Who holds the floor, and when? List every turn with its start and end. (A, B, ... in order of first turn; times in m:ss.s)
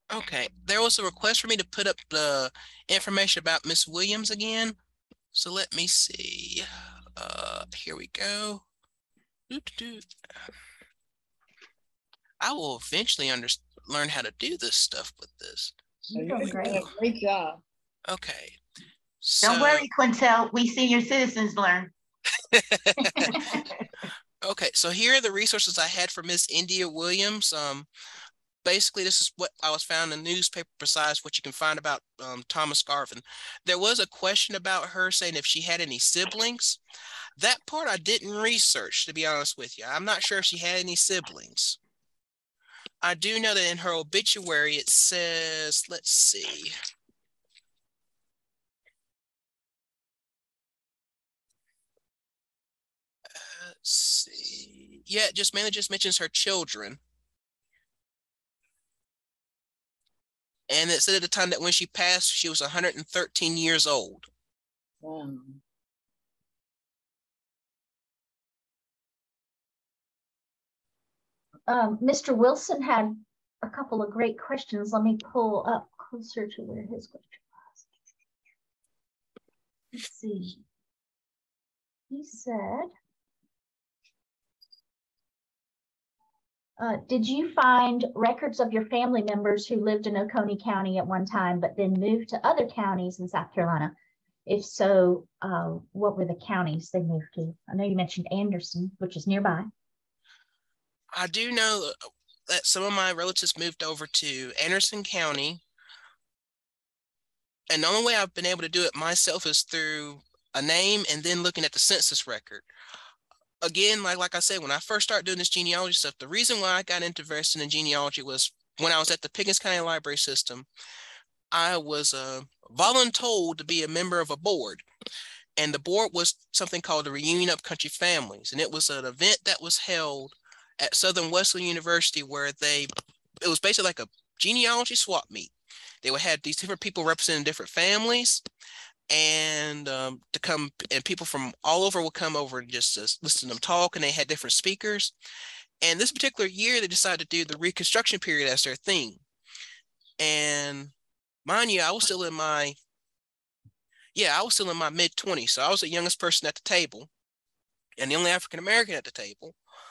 0:00.1-0:04.8 A
0:05.3-0:08.6 A
0:09.5-0:10.1 A
0:12.4-0:15.8 A
0:16.1-0:16.8 B
0:16.2-0:17.6 C
0:18.1-0:18.6 A
0:19.2-0:19.9 A
0:19.4-0:21.9 D
0:22.5-0:23.4 A
0:23.2-0:23.7 D
0:24.4-0:27.9 A
0:28.6-0:36.8 A
0:37.4-0:41.8 A
0:43.0-0:46.8 A
0:53.4-0:57.0 A
1:00.7-1:04.3 A
1:05.0-1:05.6 C
1:11.7-1:17.8 B
1:19.9-1:20.6 B
1:22.1-1:22.9 B
1:26.8-1:33.9 B
1:34.5-1:39.7 B
1:41.1-1:45.6 A
1:47.7-1:52.7 A
1:53.6-2:00.7 A
2:01.5-2:04.8 A
2:05.6-2:12.9 A
2:13.4-2:15.5 A
2:16.0-2:18.4 A
2:19.1-2:25.1 A
2:25.8-2:29.2 A
2:30.2-2:30.9 A
2:31.4-2:32.8 A
2:34.2-2:37.1 A
2:38.0-2:39.6 A